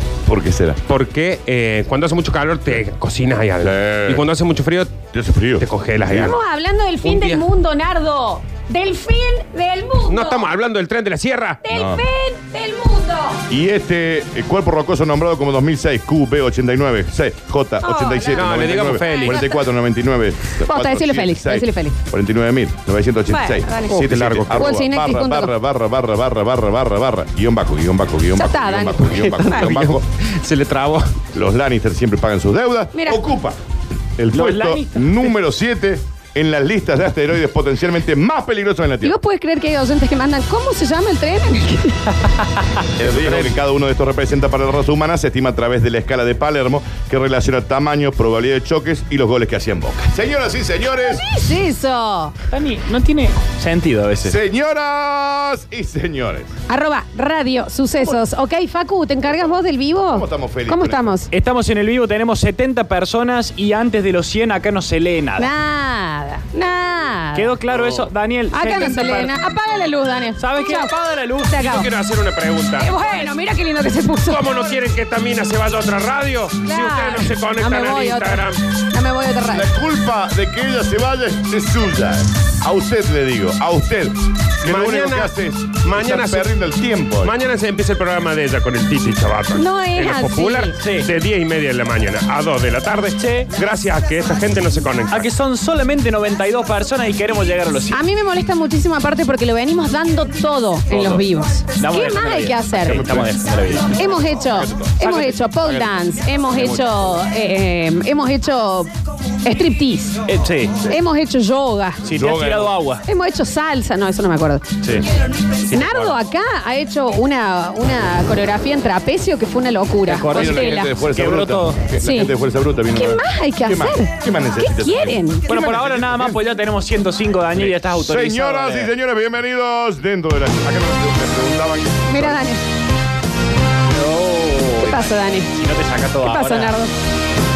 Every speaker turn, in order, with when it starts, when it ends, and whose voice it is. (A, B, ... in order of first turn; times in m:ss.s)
0:00.2-0:00.8 A
0:00.9-0:05.0 B
0:03.6-0:04.2 A
0:05.1-0:06.3 A
0:05.6-0:06.4 B
0:06.1-0:10.5 C
0:07.0-0:07.4 B
0:10.1-0:11.6 B
0:11.6-0:13.4 C
0:11.7-0:12.0 A
0:13.5-0:30.0 A
0:17.8-0:19.5 C
0:18.3-0:19.5 B
0:20.6-0:22.0 C
0:23.3-0:25.5 C
0:24.0-0:24.8 B
0:28.4-0:29.7 C
0:29.4-0:31.2 B
0:31.3-0:33.6 A
0:32.9-0:33.2 C
0:34.2-0:39.2 A
0:34.3-0:35.3 D
0:39.0-0:42.1 C
0:43.0-0:51.2 A
0:51.0-0:52.3 C
0:52.5-0:54.4 D
0:54.2-0:56.5 A
0:56.7-1:01.3 C
0:59.3-1:01.2 A
1:01.3-1:05.5 D
1:05.4-1:07.5 C
1:07.3-1:09.3 D
1:07.7-1:08.1 A
1:08.5-1:10.9 C
1:10.4-1:11.6 D
1:11.4-1:11.9 C
1:11.6-1:13.0 B
1:12.8-1:14.6 C
1:14.3-1:18.6 B
1:16.6-1:19.7 C
1:19.5-1:27.3 A
1:24.6-1:26.5 B
1:27.2-1:35.3 B
1:29.5-1:30.7 C
1:30.8-1:31.1 D
1:33.2-1:33.5 D
1:35.1-1:38.0 D
1:37.9-1:43.2 C
1:41.8-1:43.9 D
1:42.8-1:45.6 A
1:43.9-1:48.9 C
1:49.4-1:50.2 C
1:50.2-1:50.8 D
1:50.9-1:52.0 C
1:52.0-1:53.0 D
1:52.1-1:52.8 A
1:53.0-1:54.7 C
1:55.7-2:00.9 C
2:00.0-2:01.8 D
2:00.3-2:06.4 A
2:02.0-2:02.3 C
2:02.9-2:05.5 C
2:05.5-2:08.9 D
2:07.6-2:12.4 A
2:12.1-2:12.6 C
2:13.9-2:16.8 D
2:14.8-2:15.5 C
2:16.2-2:16.9 C